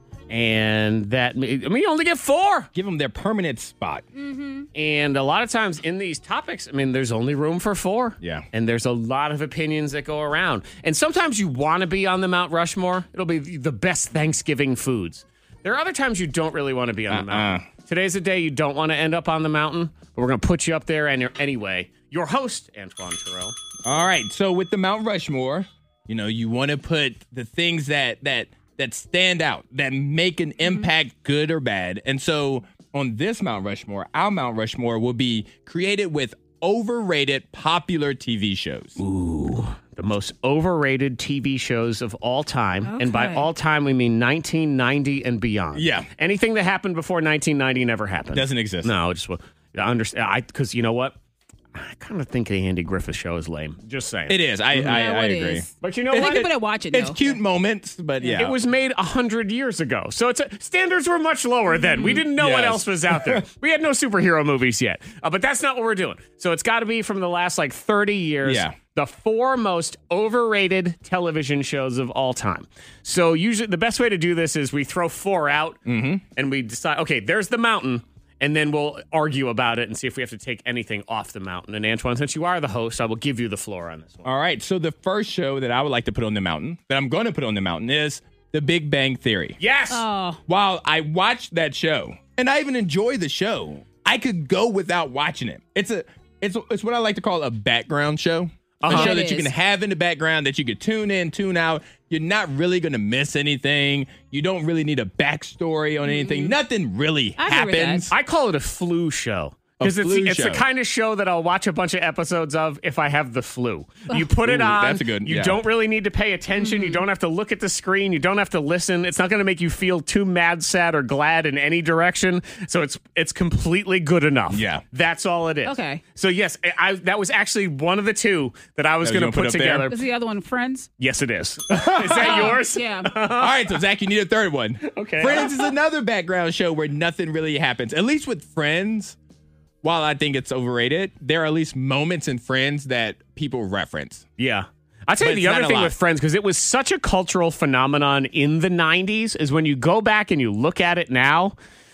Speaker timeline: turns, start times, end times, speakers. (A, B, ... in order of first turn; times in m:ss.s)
0:00.3-0:02.7 A
0:02.8-0:04.1 B
0:04.2-0:04.7 C
0:04.7-0:23.6 A
0:17.1-0:17.7 B
0:23.8-0:39.0 B
0:30.6-0:30.9 C
0:39.0-0:51.2 A
0:42.8-0:43.5 C
0:45.7-0:46.1 B
0:48.3-0:48.9 B
0:51.7-0:55.0 A
0:54.3-0:58.6 B
0:54.8-0:57.3 C
0:55.8-0:56.5 A
0:58.2-1:15.8 A
1:01.7-1:02.2 C
1:02.1-1:03.4 B
1:08.4-1:08.8 B
1:15.9-1:16.2 B
1:16.3-1:24.3 A
1:24.2-1:29.6 B
1:29.6-1:30.0 A
1:29.9-1:30.4 C
1:30.5-1:48.1 B
1:38.8-1:39.1 A
1:38.9-1:39.5 C
1:46.1-1:46.6 C
1:47.4-1:48.1 C
1:48.1-2:10.0 A
1:49.8-1:50.6 B
1:54.4-1:55.6 B
1:56.6-1:57.0 C
2:04.5-2:04.8 B
2:05.6-2:06.0 C
2:09.0-2:09.9 B
2:09.9-2:10.9 C
2:11.0-2:13.6 A
2:11.7-2:12.5 B
2:12.2-2:13.1 C
2:13.3-2:19.2 B
2:14.8-2:15.7 A
2:19.8-2:24.2 B
2:24.4-2:31.6 A
2:25.2-2:26.0 B